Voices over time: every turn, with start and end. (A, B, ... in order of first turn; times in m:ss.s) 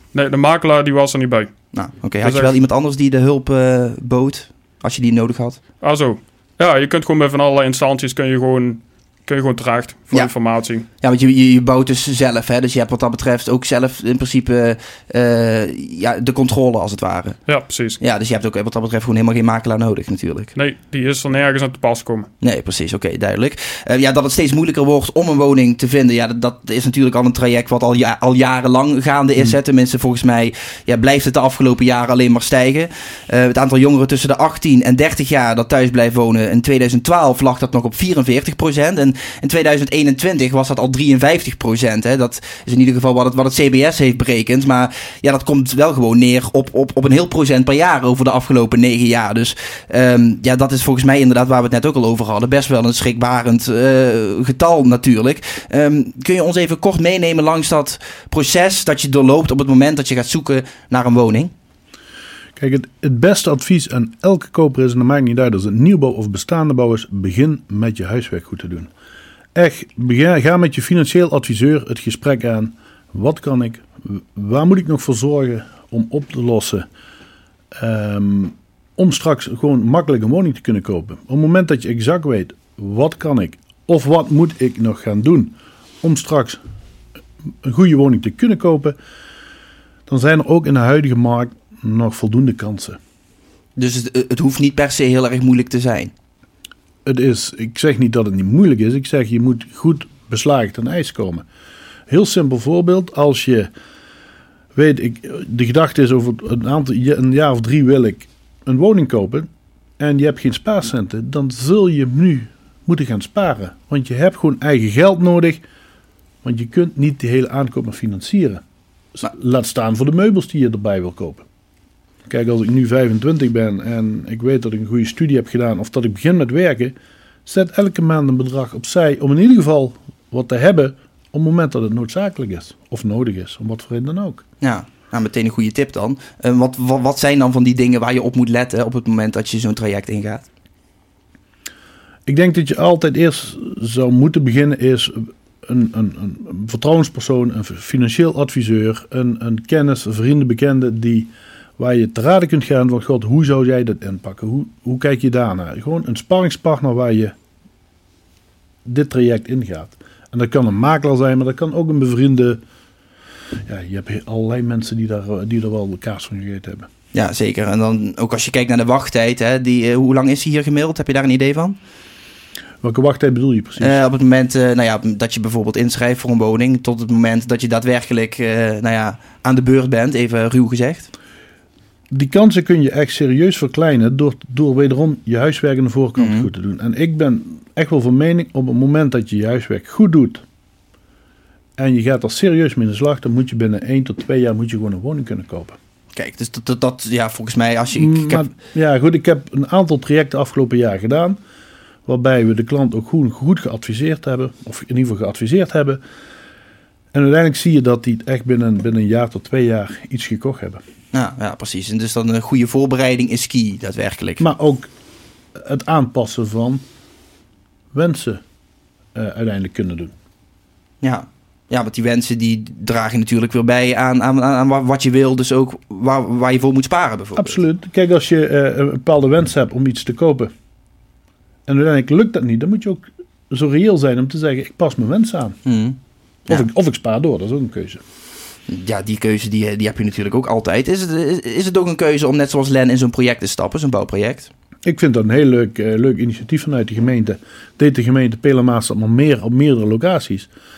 0:00.1-0:01.5 A
0:01.7-0:05.6 B
0:02.2-0:02.5 A
0:05.8-0:10.8 A
0:11.0-0:17.4 B
0:17.5-0:18.0 A
0:18.0-0:20.5 B
0:20.5-0:22.3 A
0:22.4-1:01.5 B
1:02.6-1:08.9 C
1:09.5-1:16.8 C
1:17.7-1:26.6 C
1:27.6-1:29.0 C
1:30.1-1:33.0 C
1:33.8-1:36.1 B
1:37.0-1:41.4 C
1:42.1-1:43.7 C
1:44.8-1:49.5 C
1:50.0-1:55.6 C
1:56.4-1:58.6 C
1:59.1-2:01.4 C
2:02.3-2:06.9 C
2:07.4-2:14.4 C
2:14.6-2:20.4 B
2:22.2-2:37.3 C
2:38.8-2:42.6 C
2:43.6-2:46.9 C
2:47.1-2:51.8 B
2:52.8-2:54.0 C
2:53.8-3:01.1 B
3:02.1-3:10.4 C
3:06.2-3:06.5 B
3:11.8-3:15.8 C
3:16.1-3:18.4 B
3:17.9-3:21.4 C
3:22.0-3:26.0 C
3:27.1-3:30.8 C
3:31.1-3:34.4 B
3:34.4-3:34.9 C
3:35.5-3:36.8 C
3:37.9-3:38.4 C
3:39.1-3:40.1 C
3:41.0-3:47.6 B
3:47.4-3:50.5 C
3:51.7-3:55.6 C
3:55.6-3:56.0 B
3:56.5-3:58.0 C
3:58.7-4:04.5 B
4:04.8-4:10.5 C